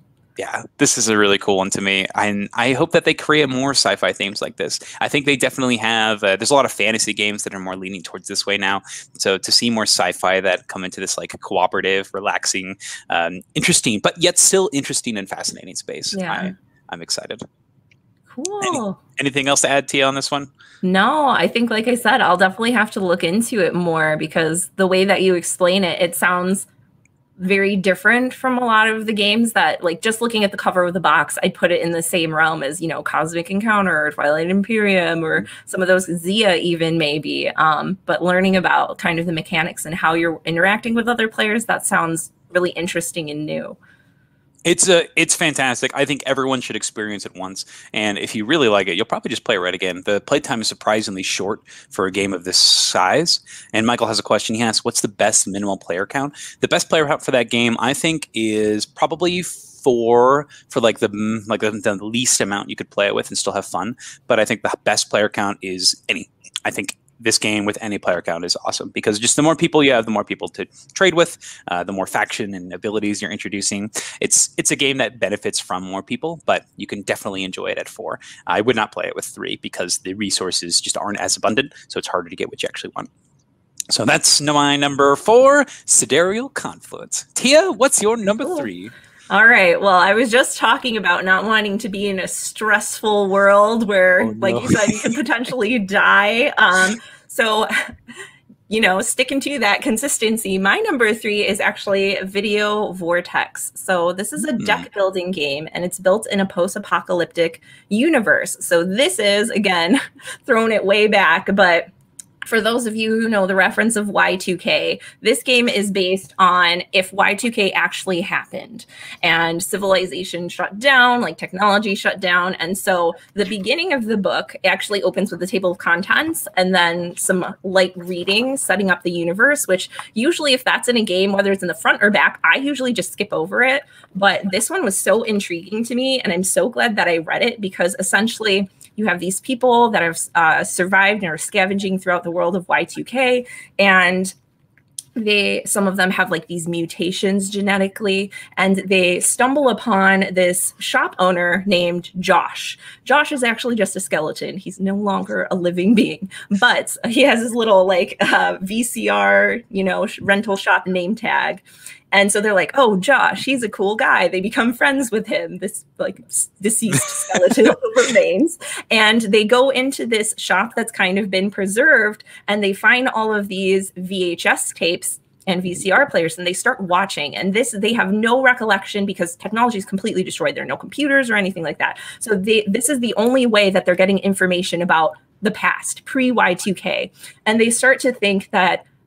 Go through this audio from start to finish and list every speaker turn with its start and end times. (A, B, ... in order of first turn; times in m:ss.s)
0:00.4-0:17.4 A
0:16.1-0:16.5 B
0:18.3-0:19.0 B
0:18.6-0:20.5 A
0:20.8-0:26.7 B
0:27.4-0:43.8 B
0:44.6-1:23.1 A
1:23.9-1:28.9 A
1:29.3-1:37.7 B
1:34.2-1:35.2 A
1:38.7-1:51.9 B
1:44.6-1:44.8 A
1:52.4-2:24.3 B
2:25.2-3:08.8 B